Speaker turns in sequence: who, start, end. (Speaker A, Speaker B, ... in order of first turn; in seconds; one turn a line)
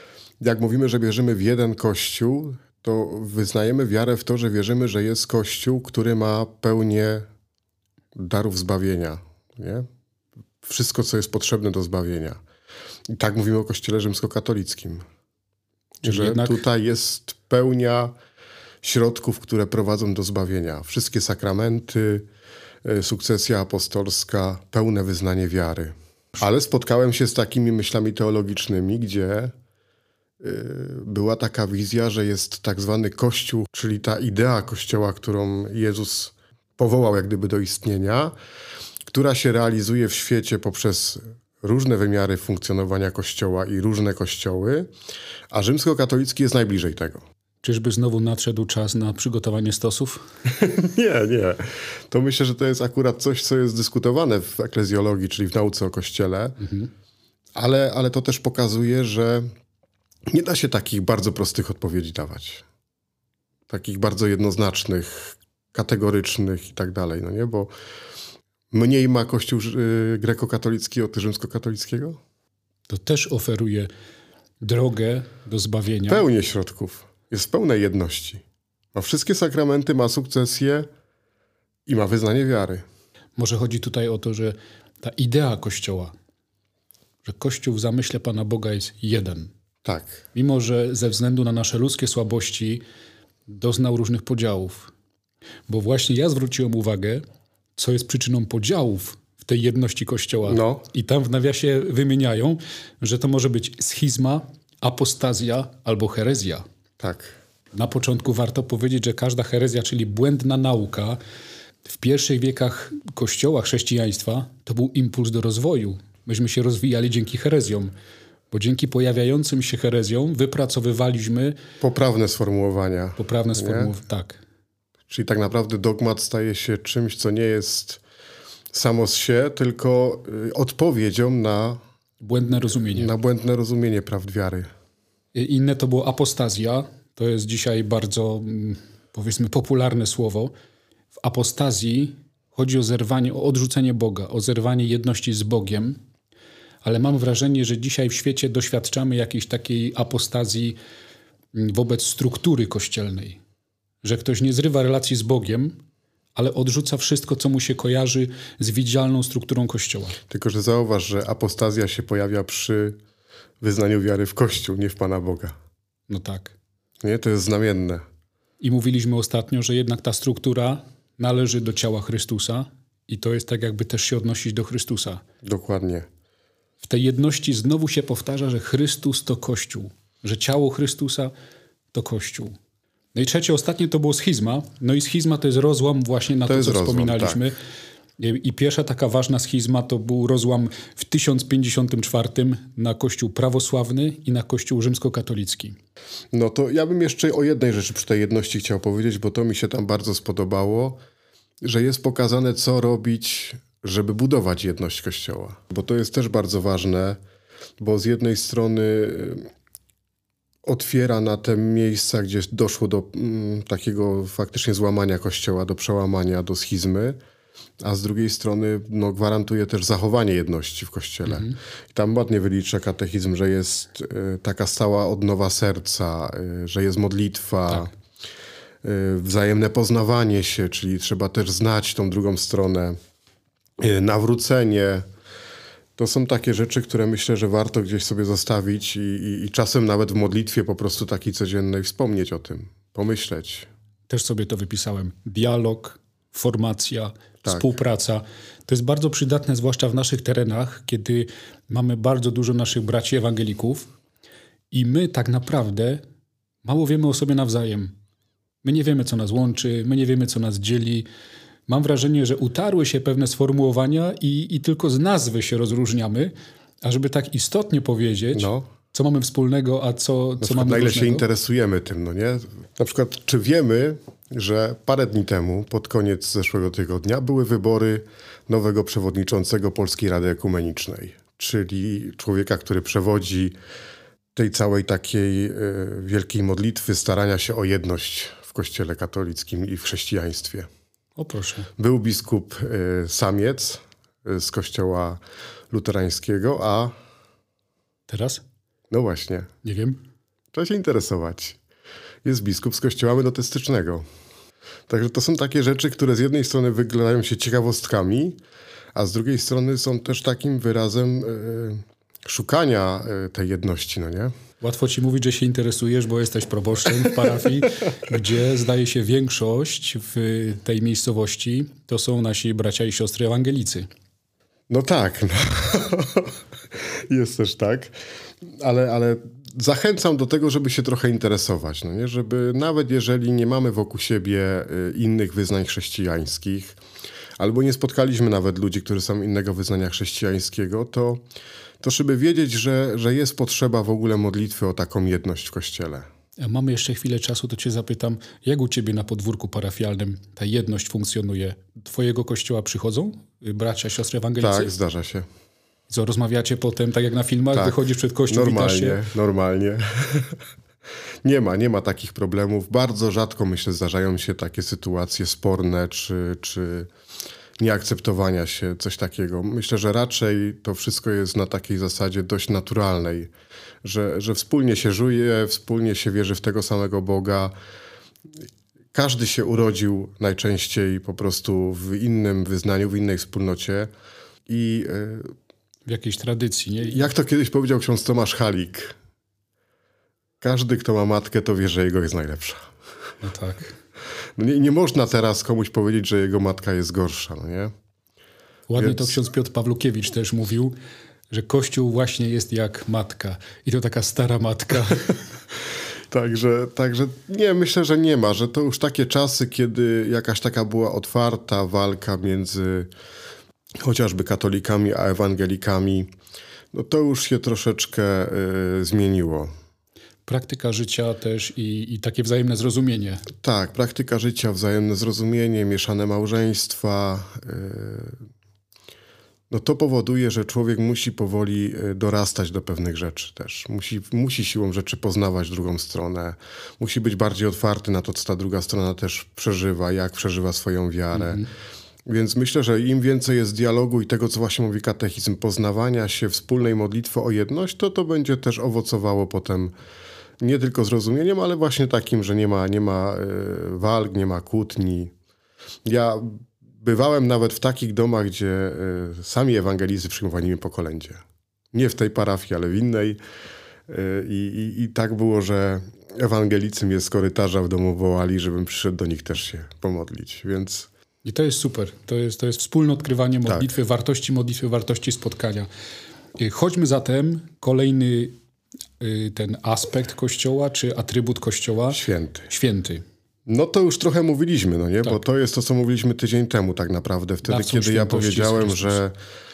Speaker A: 0.4-7.2
Speaker A: 8.2-9.9
Speaker A: 10.6-12.4
Speaker A: 13.1-15.0
Speaker A: 16.0-18.1
Speaker B: 16.0-16.6
Speaker A: 18.8-22.2
Speaker A: 22.8-29.5
Speaker A: 30.4-38.3
Speaker A: 39.1-44.9
Speaker A: 45.5-47.2
Speaker B: 47.6-50.2
Speaker A: 50.5-56.6
Speaker B: 56.6-56.9
Speaker A: 57.5-59.5
Speaker A: 60.3-62.6
Speaker A: 63.7-67.7
Speaker A: 68.7-72.2
Speaker B: 72.9-73.9
Speaker B: 74.6-76.2
Speaker A: 76.1-78.4
Speaker A: 78.9-80.9
Speaker A: 81.9-82.8
Speaker B: 83.3-86.1
Speaker B: 87.2-89.5
Speaker A: 89.8-90.2
Speaker B: 90.3-92.8
Speaker B: 93.5-94.9
Speaker B: 95.7-97.2
Speaker B: 97.8-106.6
Speaker A: 100.5-100.8
Speaker A: 107.0-107.3
Speaker B: 107.7-111.2
Speaker B: 111.8-117.9
Speaker B: 118.5-121.5
Speaker A: 121.8-123.9
Speaker B: 123.2-124.4
Speaker A: 125.1-128.0
Speaker A: 128.7-131.8
Speaker B: 132.2-133.1
Speaker A: 132.9-134.7
Speaker B: 135.3-140.5
Speaker B: 141.2-146.0
Speaker B: 146.8-150.8
Speaker B: 151.5-153.4
Speaker B: 154.0-155.8
Speaker B: 156.3-160.2
Speaker A: 160.3-163.0
Speaker A: 163.6-165.5
Speaker B: 166.1-166.5
Speaker A: 167.0-168.0
Speaker B: 168.6-175.2
Speaker A: 175.4-176.1
Speaker B: 176.8-181.3
Speaker B: 181.9-182.5
Speaker B: 183.1-187.5
Speaker A: 186.4-187.4
Speaker B: 188.2-195.8
Speaker A: 196.3-201.0
Speaker A: 201.6-207.2
Speaker A: 207.8-209.5
Speaker A: 210.6-217.2
Speaker A: 217.8-227.9
Speaker B: 221.2-221.6
Speaker A: 228.8-233.0
Speaker A: 233.8-235.1
Speaker A: 236.0-243.7
Speaker B: 244.1-253.9
Speaker A: 247.4-247.7
Speaker B: 254.7-256.0
Speaker B: 256.6-257.9
Speaker B: 258.6-261.1
Speaker B: 261.7-271.2
Speaker A: 268.3-268.7
Speaker A: 270.4-283.5
Speaker A: 284.3-290.7
Speaker B: 291.2-291.7
Speaker A: 291.8-295.2
Speaker A: 295.7-296.9
Speaker B: 298.1-298.4
Speaker A: 298.9-299.5
Speaker B: 299.6-300.0
Speaker A: 300.5-301.6
Speaker A: 302.2-304.1
Speaker A: 304.9-308.4
Speaker A: 308.9-314.3
Speaker B: 314.6-323.9
Speaker A: 324.7-327.9
Speaker A: 328.6-336.8
Speaker A: 337.4-341.2
Speaker A: 341.8-346.1
Speaker B: 346.4-354.7
Speaker A: 354.4-355.3
Speaker B: 355.9-359.0
Speaker A: 357.5-360.4
Speaker A: 361.2-366.9
Speaker A: 367.6-373.3
Speaker A: 373.8-377.5
Speaker A: 378.9-383.9
Speaker A: 384.5-385.3
Speaker B: 385.9-387.1
Speaker A: 386.9-388.9
Speaker A: 390.4-392.7
Speaker B: 393.2-393.8
Speaker A: 394.4-397.7
Speaker B: 398.7-400.7
Speaker A: 398.8-399.2
Speaker B: 401.3-405.2
Speaker A: 406.1-412.9
Speaker A: 413.8-416.1
Speaker A: 416.7-419.5
Speaker B: 420.3-423.2
Speaker A: 423.4-428.2
Speaker A: 429.5-441.4
Speaker B: 441.1-441.5
Speaker A: 442.1-449.7
Speaker A: 450.4-455.1
Speaker A: 455.8-463.2
Speaker A: 463.9-470.9
Speaker B: 471.2-475.7
Speaker A: 473.4-473.7
Speaker B: 476.4-478.4
Speaker B: 479.0-483.0
Speaker A: 481.9-482.5
Speaker A: 483.5-489.1
Speaker B: 487.4-489.0